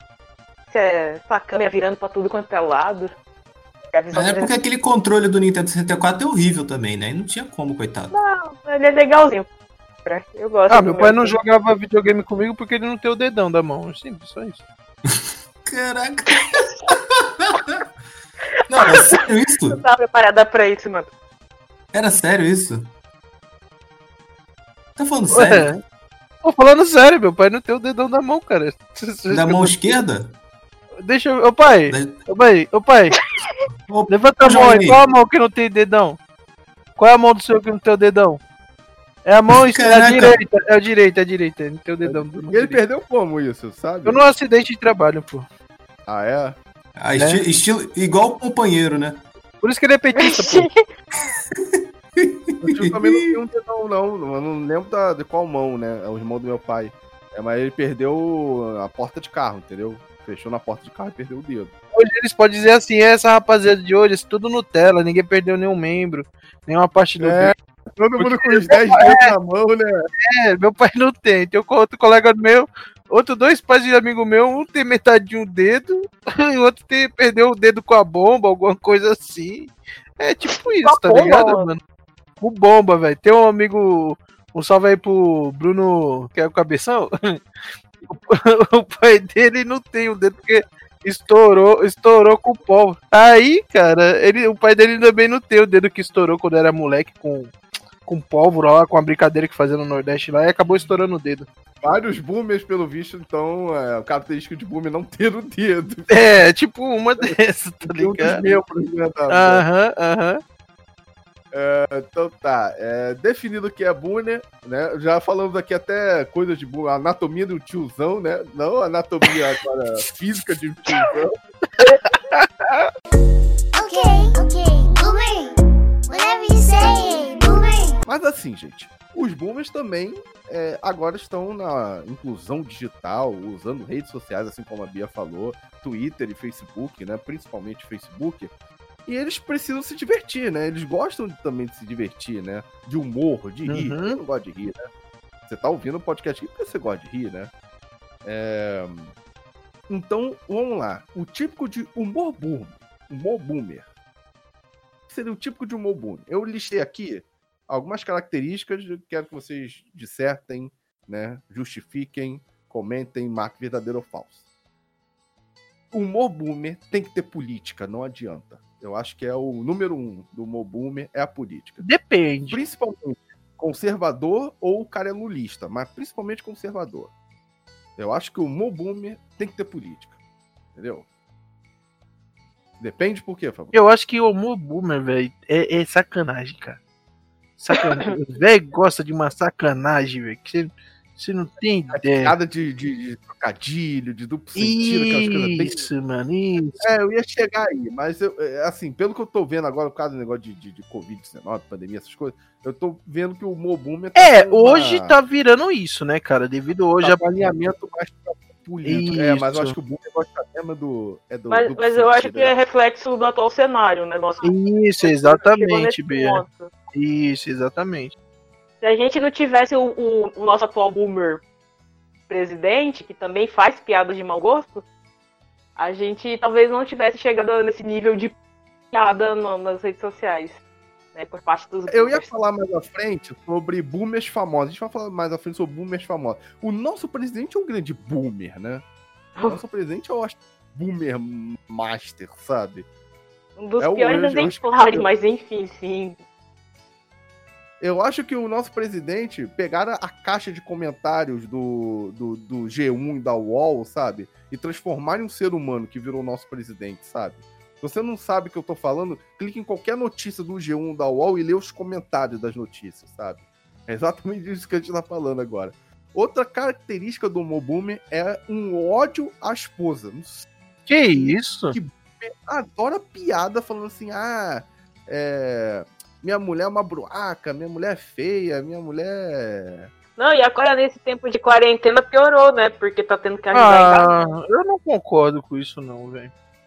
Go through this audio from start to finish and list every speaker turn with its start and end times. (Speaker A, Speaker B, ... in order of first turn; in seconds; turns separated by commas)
Speaker A: 0.7-3.1, Speaker A: 3.9-4.5, Speaker B: 4.1-8.1, Speaker A: 8.1-9.5, Speaker A: 10.0-11.3, Speaker C: 10.7-14.6, Speaker B: 15.1-17.9, Speaker B: 18.7-19.8, Speaker A: 18.8-21.1, Speaker B: 21.9-22.9, Speaker B: 25.0-25.7, Speaker C: 25.3-25.8, Speaker C: 26.4-30.0, Speaker B: 29.3-30.4, Speaker C: 31.0-33.2, Speaker B: 31.9-32.2, Speaker B: 33.9-35.0, Speaker C: 34.1-36.2, Speaker C: 37.0-38.4, Speaker C: 39.2-42.8, Speaker B: 39.6-40.4, Speaker D: 42.0-44.2, Speaker C: 44.0-45.5, Speaker D: 46.1-46.6, Speaker B: 47.0-49.2, Speaker C: 47.2-47.4, Speaker C: 49.6-50.7, Speaker A: 50.1-50.8, Speaker B: 51.6-53.2, Speaker D: 52.6-61.7, Speaker C: 62.0-67.5, Speaker D: 67.2-70.0, Speaker C: 68.2-69.3, Speaker C: 70.2-81.8, Speaker A: 80.8-81.7, Speaker C: 82.4-87.4, Speaker C: 88.0-101.5, Speaker D: 101.8-106.1, Speaker C: 106.1-108.5, Speaker D: 107.2-109.6, Speaker C: 109.3-110.4, Speaker D: 111.5-121.3, Speaker C: 121.8-122.9, Speaker E: 123.7-125.5, Speaker E: 126.1-128.0, Speaker D: 128.1-138.5, Speaker D: 139.1-144.8, Speaker C: 143.7-144.2, Speaker D: 145.4-147.5, Speaker D: 148.2-149.1, Speaker D: 149.9-153.8, Speaker D: 155.1-164.4, Speaker D: 165.9-171.8, Speaker C: 171.8-172.6, Speaker D: 172.5-177.1, Speaker D: 178.0-180.2, Speaker D: 180.7-181.1, Speaker D: 182.8-183.7, Speaker C: 183.7-186.8, Speaker C: 187.6-192.3, Speaker D: 191.9-195.9, Speaker C: 194.6-196.8, Speaker D: 196.8-205.1, Speaker C: 204.2-207.4, Speaker D: 207.0-212.6, Speaker C: 208.8-209.8, Speaker A: 211.5-214.5, Speaker C: 214.4-218.1, Speaker A: 215.0-216.7, Speaker A: 218.8-221.4, Speaker A: 222.3-224.8, Speaker A: 225.8-228.3, Speaker A: 228.9-230.6, Speaker A: 231.1-232.3, Speaker D: 231.9-238.8, Speaker D: 239.5-242.9, Speaker A: 243.6-246.2, Speaker D: 243.8-245.1, Speaker D: 247.8-270.5, Speaker C: 270.9-271.8, Speaker D: 271.7-279.9, Speaker A: 280.2-284.1, Speaker C: 283.5-286.3